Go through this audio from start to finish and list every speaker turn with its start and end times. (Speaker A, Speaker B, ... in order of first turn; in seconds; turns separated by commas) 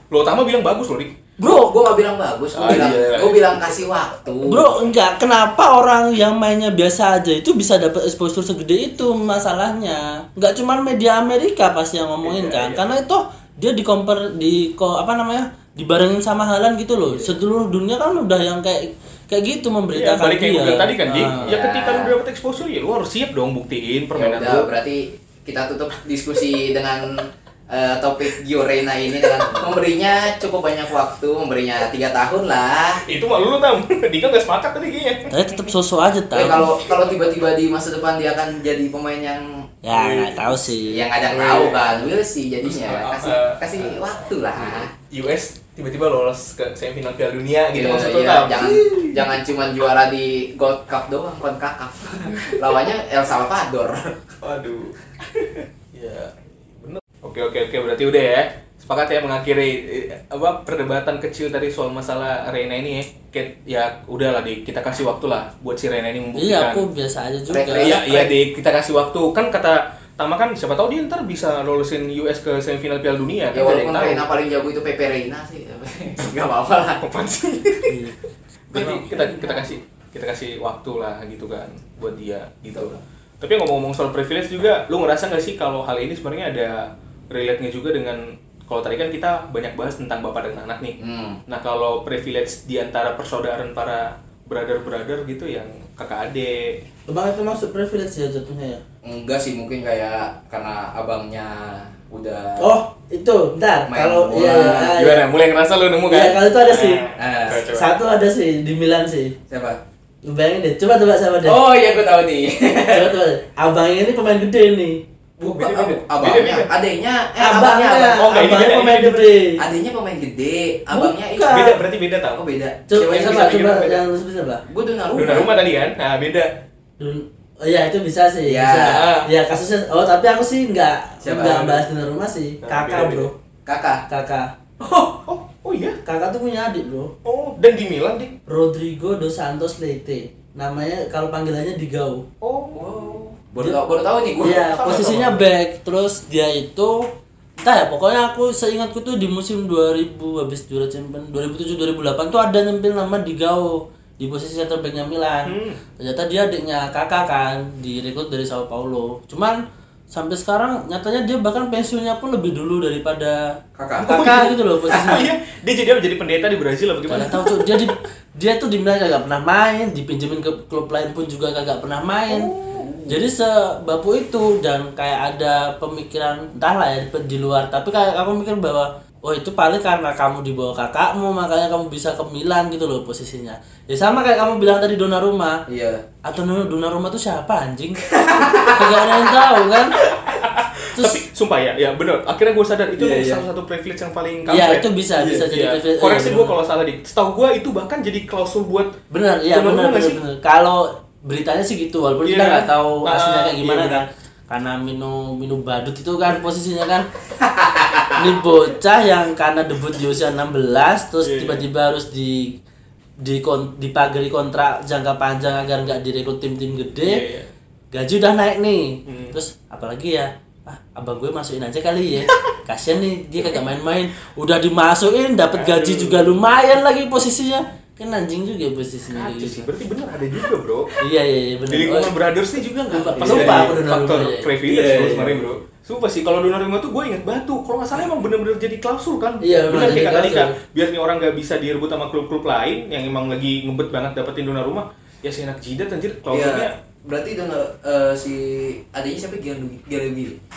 Speaker A: 0.1-1.2, Speaker B: 1.4-4.9, Speaker C: 1.4-1.7, Speaker A: 2.5-3.8, Speaker C: 2.6-2.9, Speaker C: 4.5-21.5, Speaker A: 12.2-12.9, Speaker B: 17.1-17.3, Speaker A: 19.9-24.7, Speaker B: 21.3-22.2, Speaker B: 24.1-33.0, Speaker A: 33.1-35.3, Speaker C: 35.3-36.7, Speaker B: 36.3-39.7, Speaker C: 39.8-41.1, Speaker A: 39.9-40.6, Speaker B: 40.9-44.9, Speaker A: 41.3-41.9, Speaker A: 42.6-43.9, Speaker A: 44.6-49.3, Speaker B: 47.7-54.3, Speaker A: 54.4-66.8, Speaker C: 66.4-67.9, Speaker B: 67.5-68.3, Speaker A: 67.8-74.2, Speaker B: 73.5-77.0, Speaker A: 77.0-78.0, Speaker C: 77.9-78.2, Speaker A: 78.7-96.8, Speaker B: 78.7-79.8, Speaker B: 91.0-91.4, Speaker C: 97.1-98.8, Speaker B: 99.0-102.8, Speaker C: 102.6-105.3, Speaker B: 103.9-105.0, Speaker A: 104.6-107.9, Speaker C: 106.1-107.0, Speaker B: 107.2-107.7, Speaker C: 107.6-109.4, Speaker B: 109.5-109.8, Speaker C: 110.2-111.6, Speaker B: 111.4-113.2, Speaker C: 112.9-115.0, Speaker B: 115.4-118.3, Speaker A: 115.4-116.7, Speaker C: 117.4-119.6, Speaker A: 118.1-119.4, Speaker B: 119.6-121.8, Speaker C: 120.9-121.8, Speaker A: 121.5-122.4, Speaker B: 122.3-123.6, Speaker C: 122.9-124.6, Speaker A: 123.0-124.0, Speaker B: 124.7-125.5, Speaker A: 125.1-126.6, Speaker C: 127.0-133.3, Speaker B: 128.4-129.2, Speaker A: 128.9-129.3, Speaker B: 131.2-131.8, Speaker A: 132.6-133.3, Speaker B: 133.7-134.0, Speaker C: 134.1-134.5, Speaker A: 134.8-136.0, Speaker C: 136.1-137.1, Speaker A: 137.2-138.4, Speaker C: 138.5-142.2, Speaker A: 142.4-142.9, Speaker B: 142.7-144.7, Speaker C: 144.4-159.6, Speaker A: 144.6-145.4, Speaker A: 155.4-155.8, Speaker C: 160.1-165.3, Speaker B: 163.8-164.5, Speaker A: 164.0-167.9, Speaker C: 167.1-172.5, Speaker B: 172.6-173.2, Speaker C: 173.1-185.6, Speaker B: 185.7-186.0, Speaker C: 186.2-190.0, Speaker B: 188.1-189.5, Speaker A: 190.0-198.9, Speaker C: 190.9-191.2, Speaker B: 193.0-193.4, Speaker C: 194.5-196.6, Speaker C: 199.1-207.1, Speaker A: 199.5-200.2, Speaker A: 202.2-204.1, Speaker B: 207.4-208.3, Speaker C: 208.2-212.6, Speaker A: 211.2-211.7, Speaker C: 213.2-217.2, Speaker A: 217.0-217.5, Speaker C: 217.9-229.7, Speaker A: 219.1-219.4, Speaker A: 225.5-226.3, Speaker A: 229.1-230.9, Speaker C: 231.0-232.1, Speaker A: 231.7-246.7, Speaker C: 232.9-235.5, Speaker B: 233.2-233.8, Speaker C: 239.4-240.6, Speaker B: 246.3-250.4